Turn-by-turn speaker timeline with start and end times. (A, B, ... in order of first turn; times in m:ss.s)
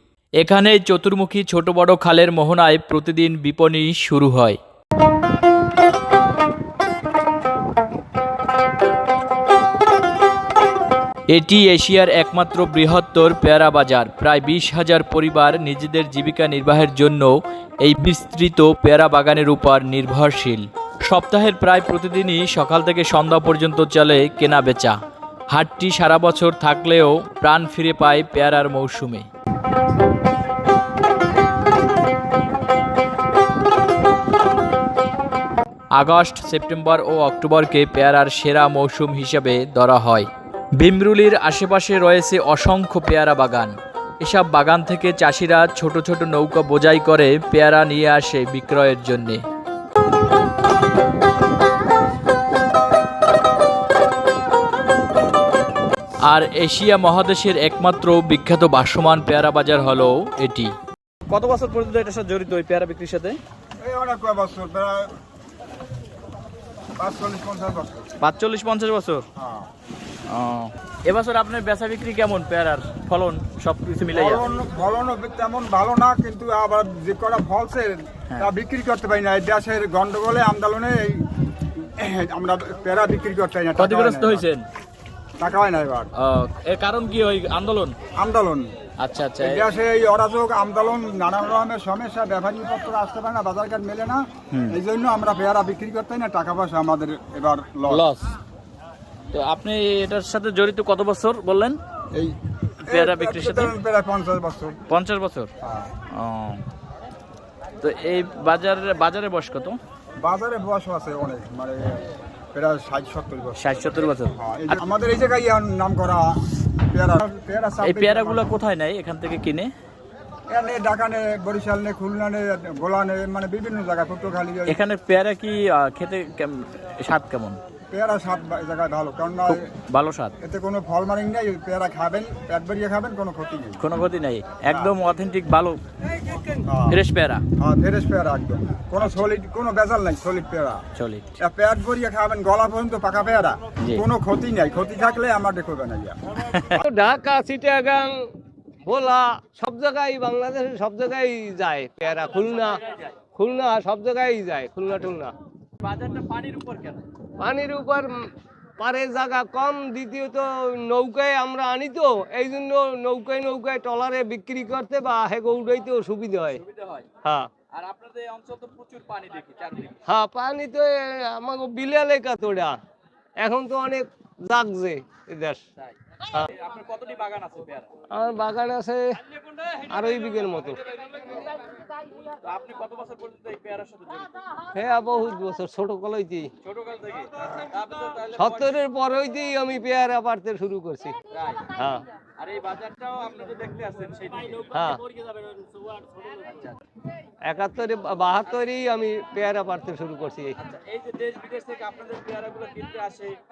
0:00.4-0:04.6 A
0:11.3-0:25.0 A
0:25.5-0:29.3 A
0:35.9-0:49.4 A
0:56.2-1:00.8 A
1:01.3-1:03.4 A
1:03.8-1:05.1 B
1:07.0-1:08.1 B
1:08.2-1:09.2 A
1:09.4-1:09.7 B
1:10.3-1:14.4 A
1:14.1-1:24.5 B
1:23.8-1:24.6 A
1:25.4-1:26.1 B
1:26.2-1:28.0 A
1:28.2-1:28.7 B
1:29.0-1:29.6 A
1:29.4-1:38.1 B
1:34.5-1:34.8 A
1:37.9-1:38.3 A
1:39.3-1:41.8 A
1:42.1-1:44.8 B
1:42.9-1:43.7 A
1:44.9-1:45.5 A
1:45.6-1:45.9 B
1:46.1-1:46.6 A
1:47.8-1:49.8 A
1:50.2-1:53.7 B
1:53.6-1:54.8 A
1:54.3-1:58.4 B
1:57.8-1:59.7 A
2:00.5-2:04.8 B
2:04.7-2:07.6 A
2:07.9-2:09.7 B
2:09.5-2:10.3 A
2:10.4-2:13.8 B
2:13.8-2:15.8 A
2:14.6-2:15.0 B
2:16.6-2:17.0 B
2:16.9-2:17.4 A
2:17.6-2:20.8 B
2:21.0-2:21.3 A
2:21.4-2:26.8 B
2:26.4-2:26.8 A
2:26.8-2:28.2 C
2:28.8-2:35.3 C
2:32.5-2:33.1 A
2:35.8-2:37.0 A
2:37.4-2:38.3 C
2:38.8-2:46.6 C
2:46.6-2:47.1 A
2:47.2-2:47.5 C
2:47.7-2:50.0 A
2:50.1-2:52.8 C
2:53.4-2:55.6 C
2:56.4-2:57.9 A
2:58.1-2:59.2 C
2:59.9-3:00.8 C
3:02.3-3:04.3 A
3:04.7-3:06.5 C
3:06.6-3:08.8 A
3:08.3-3:12.0 C
3:11.3-3:11.7 A
3:12.4-3:14.8 A
3:14.7-3:15.0 C
3:16.3-3:16.8 A
3:17.5-3:20.6 C
3:20.6-3:23.4 A